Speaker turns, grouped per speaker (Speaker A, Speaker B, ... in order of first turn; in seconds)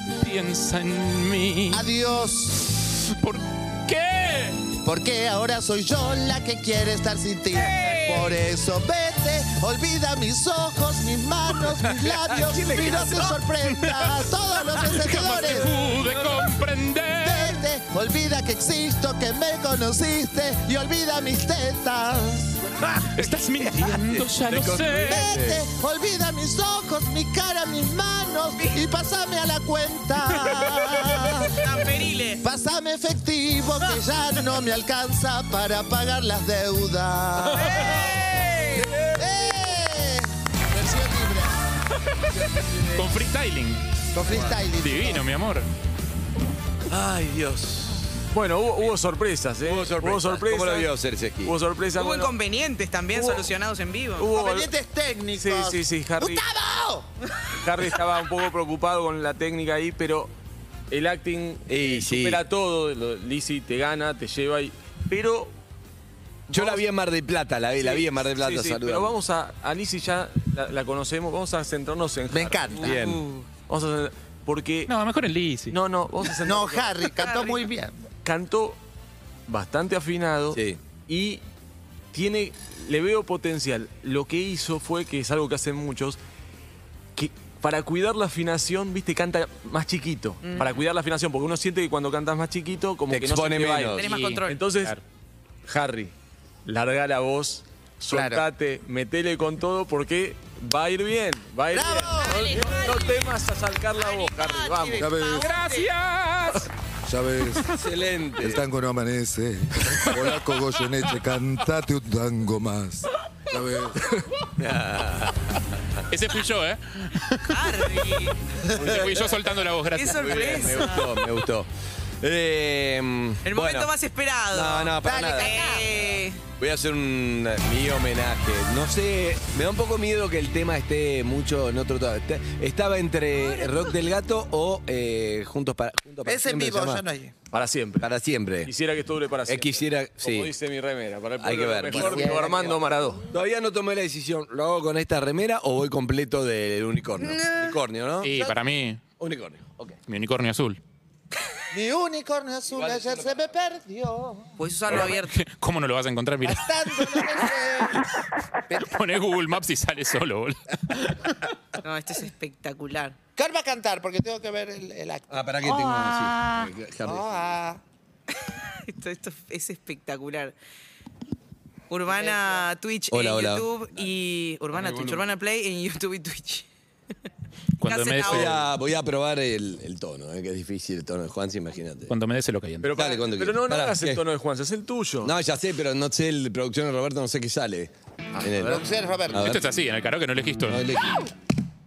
Speaker A: 0.2-1.8, 3.0-4.6, 14.0-17.6, 23.2-25.4, 42.9-43.8, 44.8-45.7, 74.9-75.8, 94.0-95.0, 105.4-106.7, 116.1-118.0, 118.8-121.1, 148.2-149.1, 150.1-150.8, 154.9-157.2, 158.8-161.5, 177.8-178.6, 182.1-182.9, 189.3-190.9
Speaker B: 1.7-2.8, 4.8-15.9, 17.2-22.7, 25.1-31.6, 32.4-38.0, 39.2-41.6, 44.1-45.2, 54.3-57.1, 72.3-72.9, 76.4-78.0, 98.1-98.5, 101.7-102.5, 125.0-125.9, 136.2-137.3, 141.9-142.8, 151.7-154.6, 156.4-158.1, 158.7-159.0, 163.4-165.7, 167.0-167.8, 188.6-189.6
Speaker C: 7.6-8.3, 30.8-32.4, 37.6-38.9, 52.0-54.3, 72.8-73.5, 77.2-77.6, 90.5-90.8, 94.0-94.7, 102.2-103.3, 104.0-105.9, 117.5-118.4, 119.8-120.9, 123.5-126.4, 147.3-147.8, 154.6-155.3, 161.8-163.2, 165.9-166.6, 168.9-170.6, 171.9-176.7, 177.8-178.6
Speaker D: 12.0-13.4, 15.1-16.4, 22.8-25.6, 38.8-39.2, 46.9-48.0, 49.6-51.5, 61.7-62.4, 66.5-69.1, 72.8-73.3, 80.5-80.8, 93.1-94.1, 107.7-108.7, 114.6-116.0, 118.8-119.2, 120.1-121.7, 122.2-124.0, 124.5-125.7, 126.6-137.0, 138.0-138.7, 139.5-140.5, 141.4-148.5, 149.2-150.0, 152.7-153.3, 165.3-167.5, 172.1-174.2, 174.7-175.3, 178.2-182.1, 183.0-184.2, 185.2-189.8, 190.7-191.3
Speaker E: 48.3-50.9, 51.4-52.4, 53.1-53.5, 54.1-54.7, 55.3-56.4, 57.5-60.3, 60.9-65.5, 66.5-66.8, 67.8-73.1, 73.7-74.9, 75.7-77.3, 78.2-78.8, 79.5-81.4, 82.1-86.2, 87.2-95.0, 95.7-96.1, 96.7-105.1, 137.5-138.1, 138.7-143.2, 182.8-185.3
Speaker F: 105.0-105.6, 107.1-107.7, 108.4-114.4